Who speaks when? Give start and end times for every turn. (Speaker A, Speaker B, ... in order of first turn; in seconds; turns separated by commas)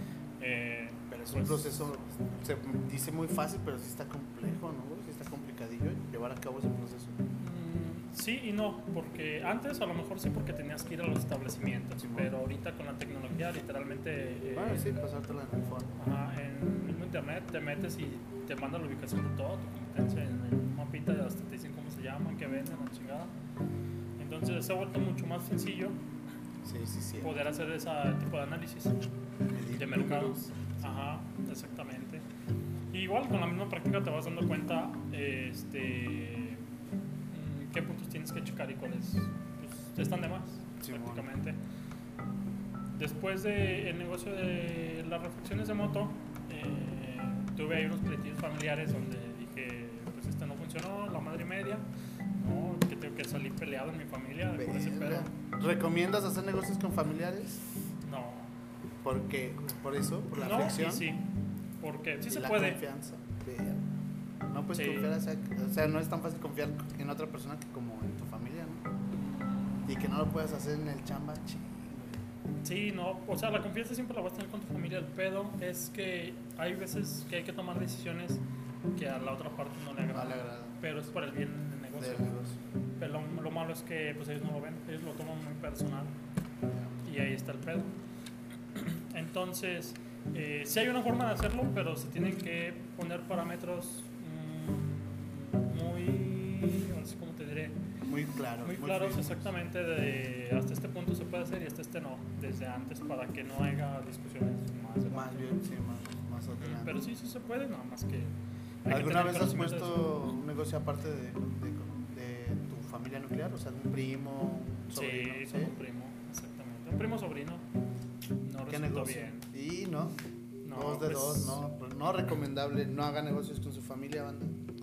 Speaker A: 0.4-1.8, Speaker B: 1.1-7.2, Speaker A: 7.4-15.0, Speaker B: 12.0-12.3, Speaker B: 14.5-15.9, Speaker A: 16.0-23.3, Speaker A: 24.2-26.0, Speaker B: 26.6-27.4, Speaker A: 27.2-29.0, Speaker B: 29.5-30.6, Speaker A: 29.7-32.2, Speaker A: 32.9-36.6, Speaker A: 37.3-41.6, Speaker B: 40.8-41.3, Speaker A: 42.9-55.3, Speaker B: 54.5-57.6, Speaker A: 58.0-58.5, Speaker B: 59.0-61.1, Speaker A: 60.4-61.3, Speaker A: 61.8-62.8, Speaker B: 62.2-63.9, Speaker B: 64.5-68.9, Speaker A: 64.7-65.2, Speaker A: 69.1-69.9, Speaker B: 69.9-72.3, Speaker A: 72.6-78.4, Speaker A: 78.9-82.3, Speaker B: 80.1-80.8, Speaker B: 82.0-82.6, Speaker A: 83.0-86.2, Speaker A: 87.0-87.9, Speaker A: 88.8-97.8, Speaker B: 98.1-99.5, Speaker A: 98.6-105.5, Speaker B: 105.1-107.0, Speaker A: 106.5-110.2, Speaker B: 108.9-115.8, Speaker A: 114.9-117.7, Speaker A: 118.4-119.5, Speaker B: 118.7-120.2, Speaker A: 120.6-121.6, Speaker B: 120.7-124.6